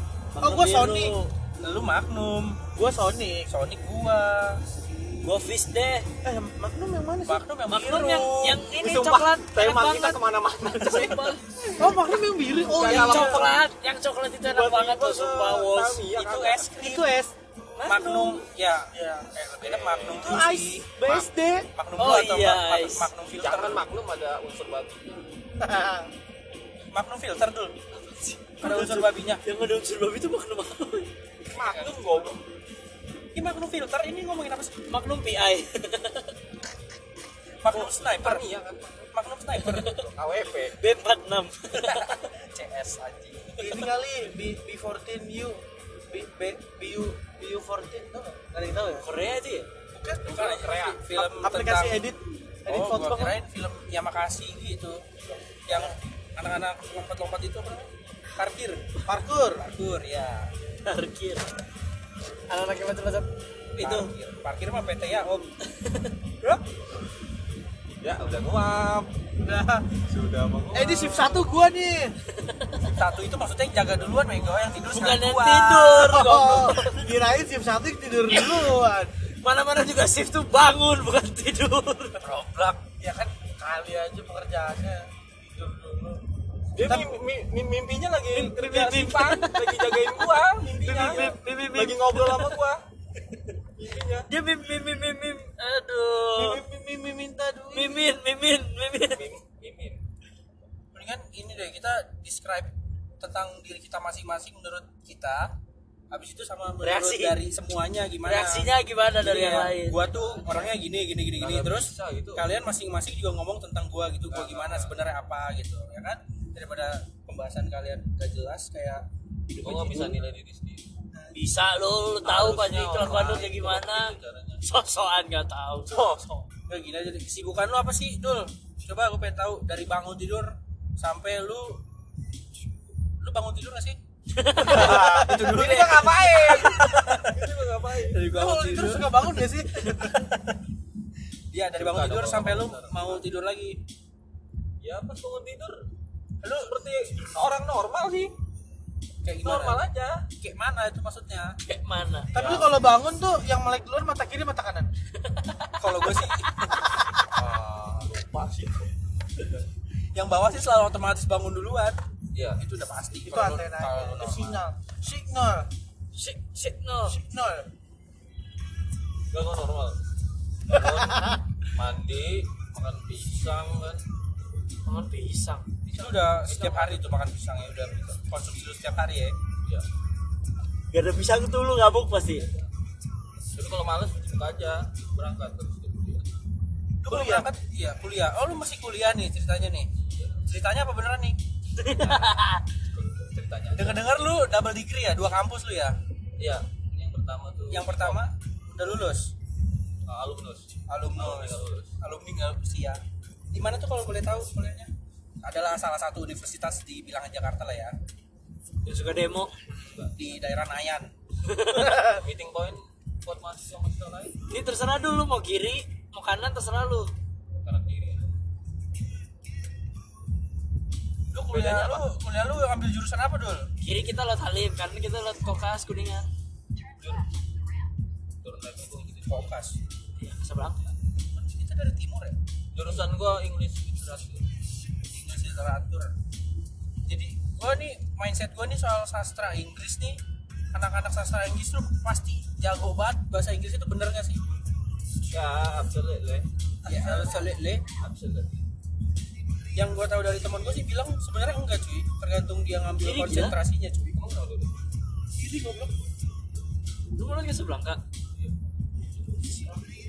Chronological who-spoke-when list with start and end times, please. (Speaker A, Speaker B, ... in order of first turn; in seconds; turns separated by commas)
Speaker A: 0.3-1.3, Speaker B: 0.4-1.1, Speaker C: 1.6-2.6, Speaker B: 2.7-3.5, Speaker C: 3.5-4.6, Speaker A: 5.2-6.1, Speaker B: 6.2-8.2, Speaker C: 7.2-8.6, Speaker A: 7.7-11.4, Speaker D: 8.7-11.3, Speaker B: 11.8-13.5, Speaker D: 12.7-13.5, Speaker A: 12.8-16.1, Speaker D: 14.4-16.7, Speaker C: 16.1-17.1, Speaker B: 16.8-17.3, Speaker A: 17.8-18.4, Speaker C: 17.8-21.2, Speaker B: 18.9-19.3, Speaker D: 19.6-20.4, Speaker B: 20.1-21.7, Speaker C: 21.7-23.9, Speaker A: 22.0-23.1, Speaker D: 23.4-25.3, Speaker B: 25.6-26.1, Speaker C: 26.9-27.8, Speaker A: 27.9-31.1, Speaker C: 28.6-29.4, Speaker D: 31.5-32.4, Speaker C: 31.5-32.2, Speaker C: 33.3-34.8, Speaker A: 34.9-36.3, Speaker C: 37.6-38.5, Speaker D: 37.7-39.1, Speaker C: 39.1-40.0, Speaker A: 39.7-40.0, Speaker D: 39.9-40.8, Speaker A: 40.7-42.2, Speaker C: 41.7-43.8, Speaker B: 43.6-49.0, Speaker A: 49.0-49.7, Speaker B: 49.9-53.4, Speaker C: 50.2-52.0, Speaker C: 52.7-55.0, Speaker C: 55.6-59.0, Speaker B: 55.7-56.0, Speaker B: 59.0-59.6, Speaker C: 59.6-60.5, Speaker A: 60.8-61.5, Speaker A: 62.5-64.1, Speaker C: 63.8-65.5, Speaker A: 65.6-66.1, Speaker D: 67.9-69.1, Speaker B: 69.4-69.9, Speaker D: 70.0-71.4, Speaker B: 70.7-72.1, Speaker A: 72.3-72.9, Speaker C: 72.8-76.3, Speaker A: 74.9-77.0, Speaker B: 76.1-79.1, Speaker A: 79.3-82.2, Speaker C: 82.2-82.8, Speaker B: 83.0-86.2, Speaker D: 86.7-92.8, Speaker B: 86.8-87.2, Speaker A: 88.3-90.2, Speaker B: 90.8-91.5, Speaker A: 90.8-92.6, Speaker D: 93.8-94.3, Speaker A: 94.3-96.6, Speaker B: 96.3-98.0, Speaker A: 97.7-99.2, Speaker D: 99.1-100.0, Speaker C: 100.9-105.5, Speaker C: 106.1-119.0, Speaker A: 106.8-107.4, Speaker A: 108.2-110.6, Speaker D: 111.4-112.5, Speaker D: 114.3-115.0, Speaker A: 119.6-120.2, Speaker D: 119.6-120.9, Speaker C: 119.7-120.1, Speaker A: 121.3-125.9, Speaker D: 122.2-124.6, Speaker D: 125.9-126.5, Speaker C: 126.7-131.8, Speaker C: 133.2-134.0, Speaker A: 134.3-135.1, Speaker B: 134.6-137.0, Speaker C: 134.6-137.4, Speaker D: 134.8-135.3, Speaker D: 137.1-138.2, Speaker C: 138.1-139.2, Speaker B: 138.3-140.2, Speaker C: 140.0-140.3, Speaker C: 141.5-143.8, Speaker D: 141.7-143.2, Speaker D: 144.8-145.8, Speaker C: 146.4-146.8, Speaker D: 146.5-148.3, Speaker C: 149.2-149.9, Speaker D: 149.4-150.2, Speaker C: 150.4-151.6, Speaker A: 151.6-152.3, Speaker B: 152.3-154.9, Speaker D: 152.3-152.7, Speaker C: 152.3-152.6, Speaker A: 155.2-156.1, Speaker C: 155.8-156.7, Speaker D: 157.3-158.4, Speaker B: 158.3-158.8, Speaker C: 160.1-162.0, Speaker D: 162.3-162.6, Speaker C: 162.6-164.6, Speaker B: 163.2-165.7, Speaker A: 166.1-167.2, Speaker B: 167.1-167.7, Speaker D: 169.3-170.0, Speaker D: 170.7-174.0, Speaker A: 174.8-175.7, Speaker C: 175.9-179.3, Speaker D: 175.9-177.1, Speaker A: 180.9-182.5, Speaker D: 183.5-186.3, Speaker C: 187.0-189.9, Speaker B: 187.1-187.5, Speaker D: 190.0-190.4, Speaker C: 190.4-191.4, Speaker A: 191.8-192.6, Speaker D: 192.9-194.2, Speaker C: 193.8-195.9, Speaker D: 196.4-198.2, Speaker C: 197.7-199.3, Speaker D: 200.1-201.9, Speaker C: 200.9-203.0, Speaker C: 203.5-204.9, Speaker C: 205.4-207.9, Speaker A: 208.8-209.5, Speaker D: 209.7-210.1, Speaker C: 210.1-211.1, Speaker A: 211.4-212.1, Speaker D: 211.7-214.4, Speaker A: 214.5-217.1, Speaker D: 217.6-218.3, Speaker C: 221.3-223.7, Speaker A: 221.5-222.0, Speaker A: 223.8-226.3, Speaker D: 227.0-227.2, Speaker D: 228.4-229.5, Speaker C: 229.2-229.8, Speaker A: 230.2-230.8, Speaker C: 231.3-232.3, Speaker D: 232.7-234.4, Speaker C: 235.0-236.1, Speaker C: 237.1-240.2, Speaker C: 240.7-244.5, Speaker D: 245.3-246.5, Speaker B: 246.8-247.4, Speaker C: 246.8-247.8, Speaker D: 248.0-248.6, Speaker C: 249.7-254.2, Speaker A: 253.0-253.6, Speaker D: 254.1-254.8, Speaker B: 255.3-256.0, Speaker A: 257.1-258.0